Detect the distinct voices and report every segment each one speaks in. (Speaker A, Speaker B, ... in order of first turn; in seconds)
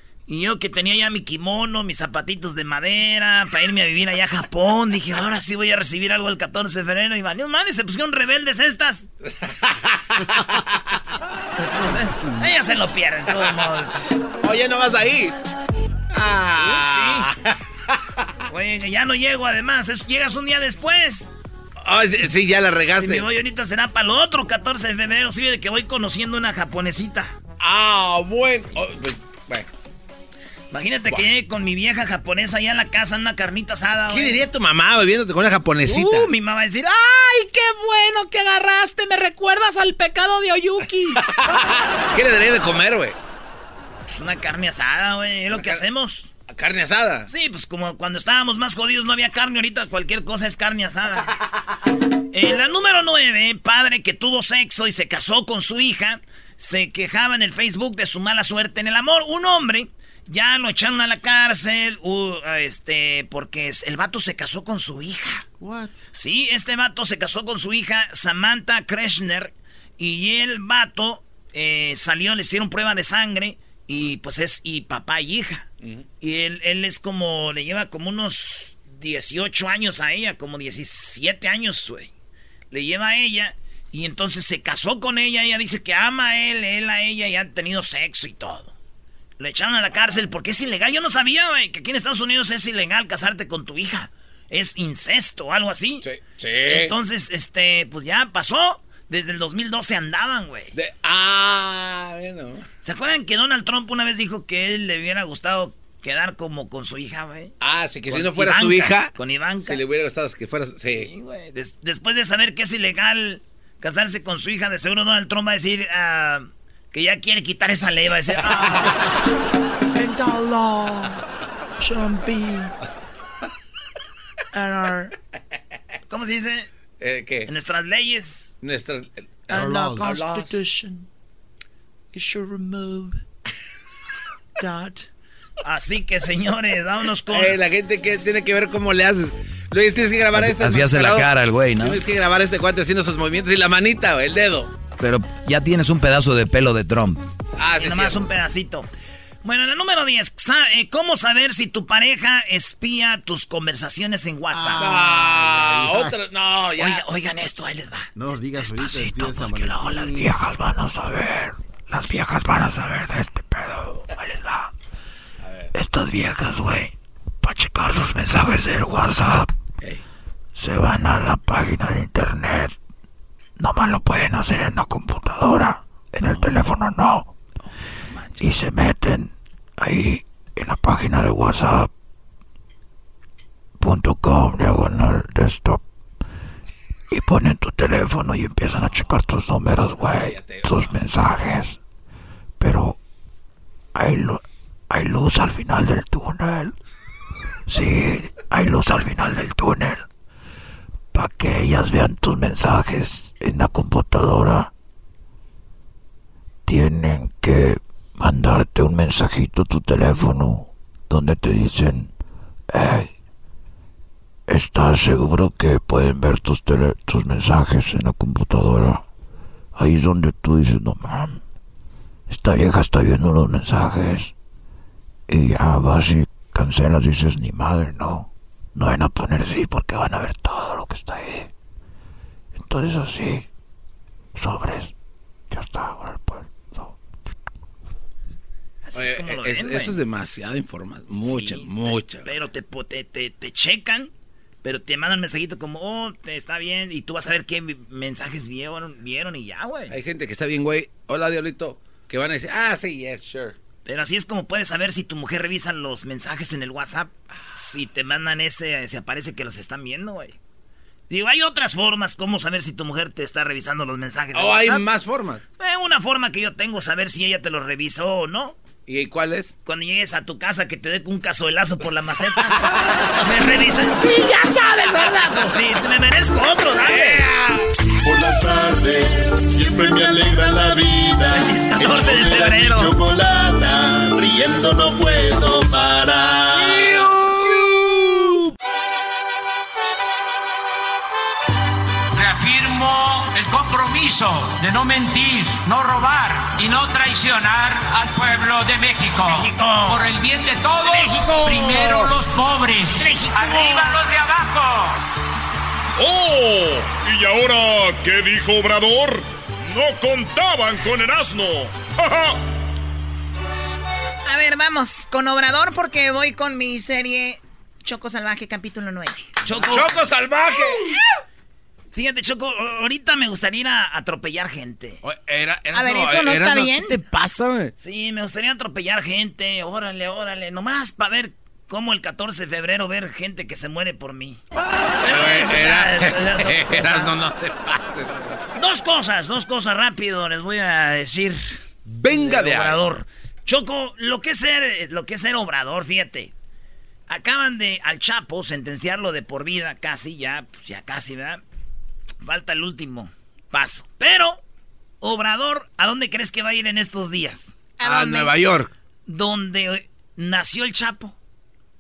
Speaker A: 0.3-9.1, 11.6-14.1, 16.6-17.3, 18.5-21.3, 23.0-27.4, 30.7-34.4, 35.9-41.2, 44.1-46.3, 47.3-51.3, 52.3-65.5, 66.1-75.7, 76.2-82.1, 82.7-88.7, 89.4-96.0, 96.7-100.7, 102.8-107.5, 108.1-109.8, 111.0-118.9, 121.8-122.7, 124.6-125.1, 126.1-126.7, 127.5-128.5, 129.5-130.9, 132.2-133.0, 135.6-137.6, 147.8-148.9, 149.4-155.0, 156.8-160.1, 238.8-240.0, 241.2-244.1, 244.6-249.9, 253.8-260.4, 261.1-264.9, 265.6-268.6, 269.7-272.6, 273.2-277.3, 281.3-282.9, 299.3-300.0, 301.0-301.8, 303.0-303.9, 319.4-320.0, 321.9-325.0, 327.8-334.4, 335.0-337.1, 338.6-341.6, 342.1-346.3, 347.1-351.4, 352.2-354.4, 355.0-357.5, 359.1-361.1
Speaker B: 14.4-15.4, 16.1-17.5, 21.8-23.3, 27.6-29.7, 34.1-36.3, 41.3-43.2, 45.5-45.8, 46.5-47.3, 96.0-96.9, 100.7-102.7, 107.6-109.1, 109.7-111.1, 127.0-127.5, 128.6-130.5, 137.3-144.7, 147.6-148.2, 154.8-157.0, 190.0-190.9, 239.0-242.3, 249.9-253.6, 264.3-265.4, 268.9-269.5, 276.8-277.6, 319.5-320.8, 325.0-327.7, 335.0-338.4, 341.9-342.8, 357.8-358.7
Speaker C: 65.6-66.0, 129.5-130.5, 154.5-156.2, 158.2-160.3
Speaker D: 140.3-142.0, 145.0-147.2
Speaker E: 159.7-164.7, 165.7-169.5, 170.6-172.7, 173.6-177.3, 178.4-181.9, 183.8-185.8, 187.1-191.8, 192.6-193.0, 193.9-196.7, 197.7-200.1, 201.1-204.7, 206.7-212.1, 212.7-213.1, 214.5-219.0, 219.8-221.4, 222.3-224.3, 225.3-231.5, 232.6-233.5, 234.4-234.9, 235.5-236.9
Speaker F: 278.0-286.9
Speaker G: 292.1-305.0
Speaker H: 306.0-312.4
Speaker I: 314.3-319.3, 325.7-326.9, 357.8-358.3